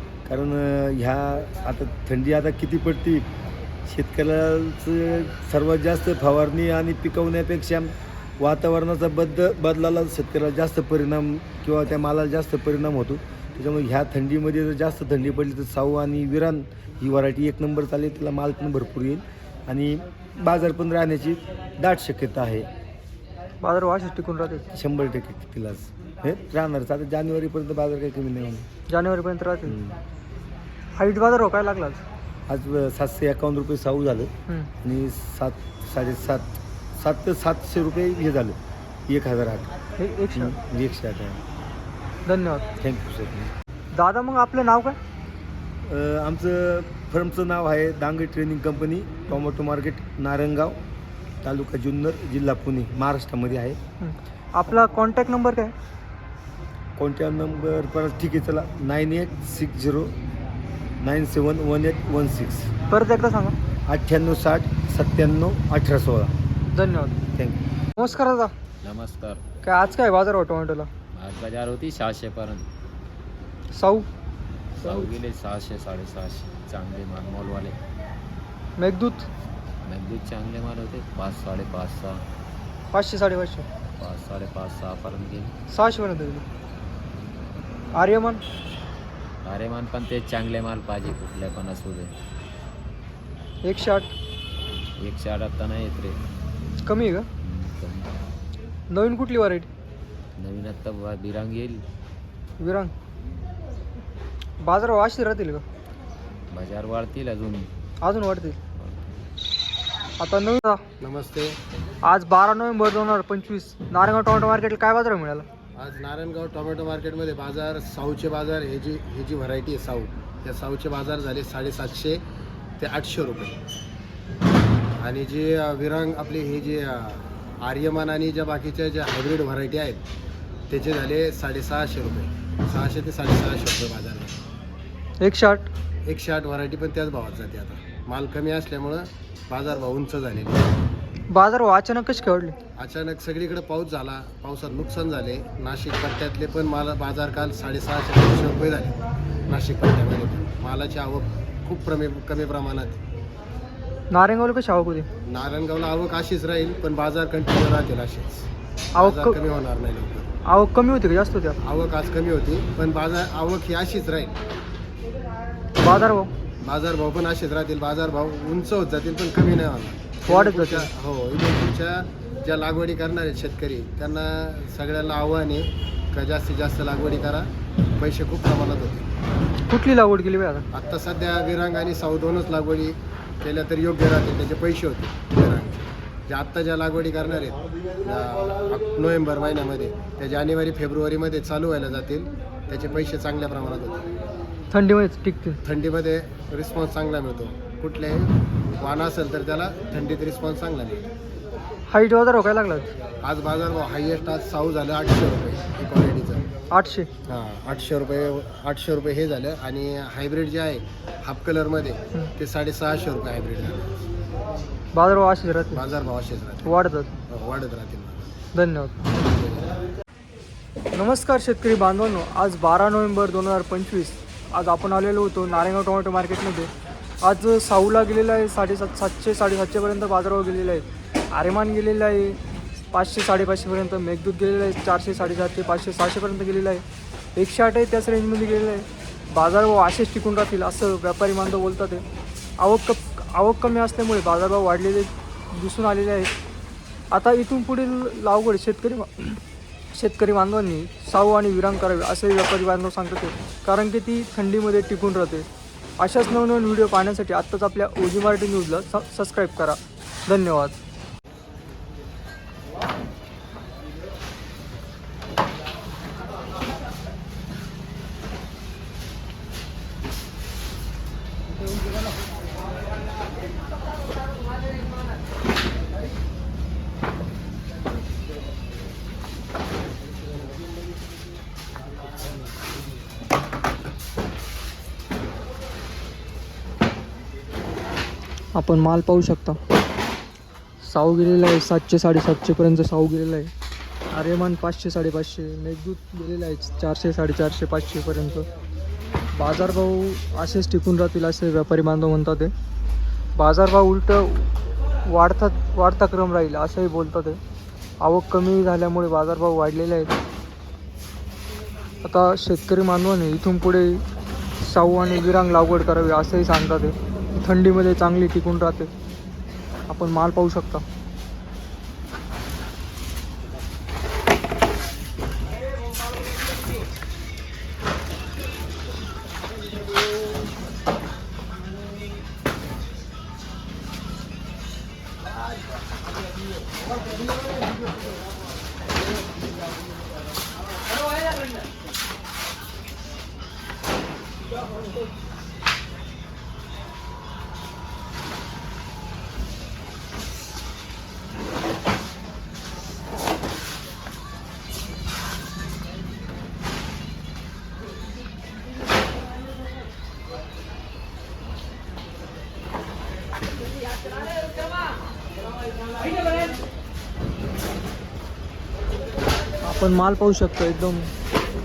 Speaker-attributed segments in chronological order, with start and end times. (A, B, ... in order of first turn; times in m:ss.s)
0:00.2-0:03.3 A
0:03.8-0:22.7 A
0:23.6-0:24.7 B
0:24.7-0:28.7 A
0:28.9-0:29.8 B
0:29.7-0:30.0 A
0:30.9-0:32.0 B
0:32.5-0:34.3 A
0:34.8-0:39.7 A
0:40.0-0:40.5 B
0:40.3-0:41.4 A
0:42.2-0:42.6 B
0:42.8-0:43.5 A
0:43.9-0:45.0 B
0:45.8-0:50.8 A
0:51.4-0:53.8 A
0:54.0-0:55.7 B
0:57.0-1:00.1 A
1:01.0-1:02.7 A
1:02.9-1:03.6 B
1:03.9-1:06.3 A
1:06.7-1:07.2 B
1:08.0-1:08.5 B
1:08.8-1:09.4 C
1:09.6-1:10.9 B
1:11.1-1:12.6 C
1:13.7-1:14.1 B
1:14.8-1:17.8 C
1:14.8-1:15.1 B
1:18.8-1:19.3 B
1:19.8-1:22.2 C
1:22.9-1:23.6 B
1:24.0-1:25.5 C
1:25.7-1:26.4 B
1:27.9-1:28.4 B
1:29.4-1:32.1 C
1:33.6-1:34.1 B
1:35.0-1:36.2 C
1:36.8-1:37.3 B
1:37.4-1:38.1 C
1:38.9-1:39.7 B
1:40.4-1:41.8 C
1:42.6-1:42.9 B
1:44.6-1:45.6 B
1:46.5-1:47.7 C
1:48.0-1:48.6 B
1:48.8-1:49.0 C
1:50.2-1:50.8 B
1:51.0-1:51.6 D
1:52.0-1:55.5 B
1:55.8-2:02.2 D
2:02.8-2:03.6 D
2:05.0-2:10.0 D
2:10.7-2:14.3 D
2:15.2-2:15.7 B
2:16.0-2:20.6 D
2:21.3-2:22.6 B
2:22.8-2:33.0 D
2:34.1-2:35.1 B
2:35.2-2:40.3 D
2:38.9-2:39.4 B
2:40.4-2:41.6 B
2:41.6-2:44.3 D
2:45.8-2:46.3 B
2:46.6-2:59.1 D
2:50.2-2:50.9 B
2:59.7-3:00.6 B
3:00.7-3:14.1 D
3:14.7-3:15.6 B
3:15.6-3:21.0 D
3:21.9-3:22.9 B
3:23.2-3:26.4 D
3:26.7-3:27.1 B
3:27.2-3:34.0 D
3:34.9-3:35.8 B
3:35.7-3:36.8 D
3:36.6-3:37.1 B
3:37.3-3:38.3 D
3:38.5-3:39.0 B
3:39.1-3:39.7 D
3:40.9-3:46.7 B
3:47.2-3:52.4 B
3:52.9-3:56.8 B
3:57.4-4:02.0 B
4:02.6-4:06.3 B
4:07.1-4:09.4 B
4:09.9-4:15.4 B
4:16.0-4:20.8 B
4:48.5-4:49.6 B
4:50.8-4:53.5 B
4:54.1-4:58.4 B
4:59.3-5:02.5 B
5:03.4-5:04.5 B
5:05.0-5:07.4 B
5:08.0-5:10.2 B
5:12.0-5:14.0 B
5:14.6-5:18.9 B
5:19.9-5:20.8 B
6:09.6-6:11.1 B